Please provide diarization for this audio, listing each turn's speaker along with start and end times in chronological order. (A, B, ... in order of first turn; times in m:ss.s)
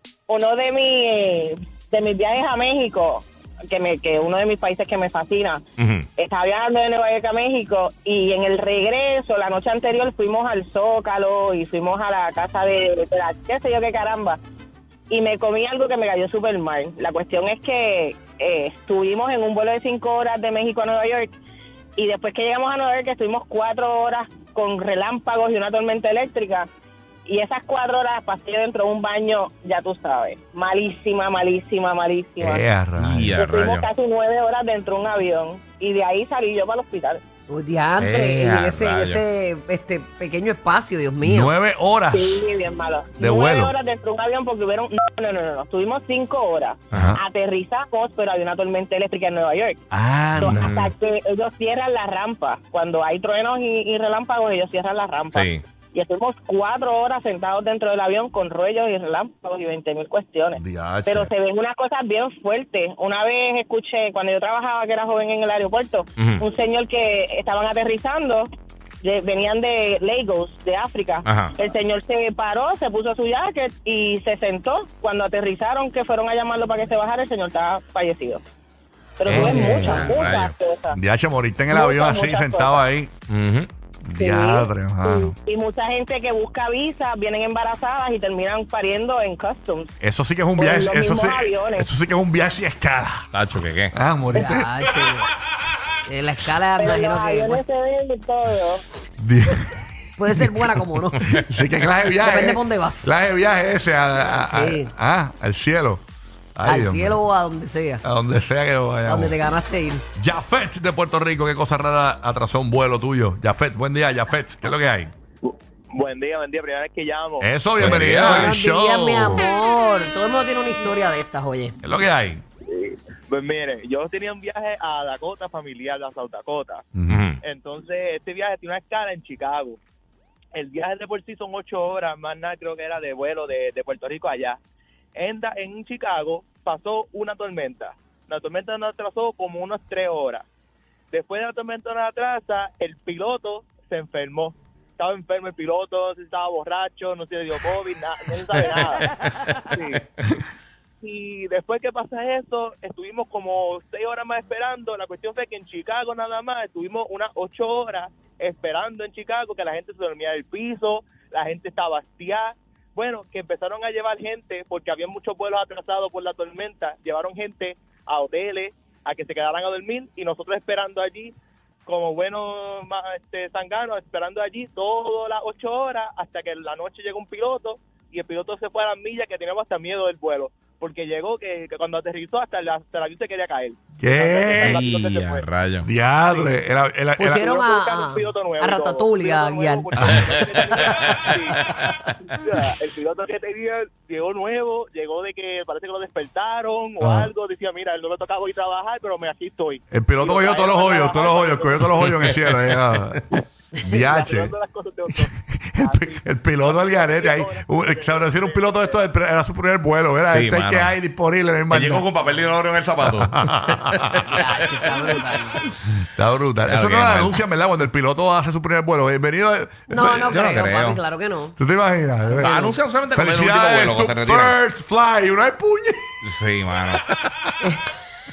0:00.3-0:05.6 A
0:05.8-0:06.1 B
0:06.2-0:14.4 A
0:15.1-0:21.3 A
0:22.0-0:26.7 A
0:27.3-0:32.6 A
0:32.4-0:33.4 C
0:33.0-0:33.9 B
0:33.4-0:37.2 A
0:37.5-0:41.5 D
0:38.0-0:39.2 B
0:41.2-0:42.5 C
0:42.1-0:49.8 A
0:43.2-0:43.7 C
0:46.9-0:47.2 C
0:49.9-0:50.7 C
0:50.4-1:08.5 A
0:50.4-0:50.9 B
0:55.3-0:55.6 B
1:00.6-1:01.3 C
1:06.2-1:06.4 B
1:09.0-1:18.4 A
1:11.2-1:11.5 B
1:19.2-1:21.0 A
1:19.3-1:20.5 B
1:19.3-1:20.1 C
1:20.9-1:23.1 C
1:21.7-1:22.8 A
1:23.3-1:23.7 B
1:24.0-1:25.3 C
1:24.2-1:29.9 A
1:30.0-1:33.3 C
1:30.6-1:31.9 A
1:33.3-1:33.9 B
1:33.9-1:34.7 C
1:34.3-1:35.3 D
1:36.1-1:37.6 D
1:36.8-1:38.8 A
1:39.2-1:39.8 C
1:40.2-1:41.4 D
1:40.3-1:46.0 C
1:42.2-1:43.1 D
1:44.2-1:44.9 D
1:46.6-1:47.2 C
1:46.6-1:48.0 D
1:48.0-1:49.4 C
1:49.0-1:50.0 D
1:50.2-1:55.1 C
1:55.4-1:57.5 E
1:57.4-1:59.5 C
1:57.8-1:58.6 B
1:58.0-2:01.8 D
2:01.8-2:02.4 C
2:02.7-2:06.8 E
2:07.0-2:07.2 C
2:07.1-2:07.4 B
2:07.4-2:09.8 E
2:10.6-2:14.6 E
2:15.2-2:20.4 E
2:21.1-2:29.0 E
2:28.5-2:29.6 B
2:29.7-2:30.0 E
2:31.0-2:51.3 E
2:51.9-3:05.5 E
3:04.0-3:04.8 C
3:04.6-3:05.9 B
3:05.8-3:07.4 C
3:06.2-3:06.6 E
3:07.2-3:11.1 D
3:07.3-3:11.6 E
3:10.0-3:10.2 C
3:10.0-3:12.0 B
3:12.3-3:21.9 E
3:17.0-3:17.3 C
3:19.9-3:23.2 C
3:22.0-3:23.2 B
3:23.8-3:24.5 C
3:23.8-3:29.0 E
3:25.1-3:32.1 C
3:30.3-3:31.0 B
3:31.7-3:35.2 B
3:33.0-3:34.3 C
3:34.3-3:35.6 D
3:35.9-3:40.1 C
3:36.7-3:37.4 B
3:39.9-3:41.6 D
3:39.9-3:41.0 B
3:41.6-3:46.2 C
3:42.2-3:42.7 D
3:42.4-3:44.6 B
3:46.2-3:47.0 B
3:47.1-3:47.5 C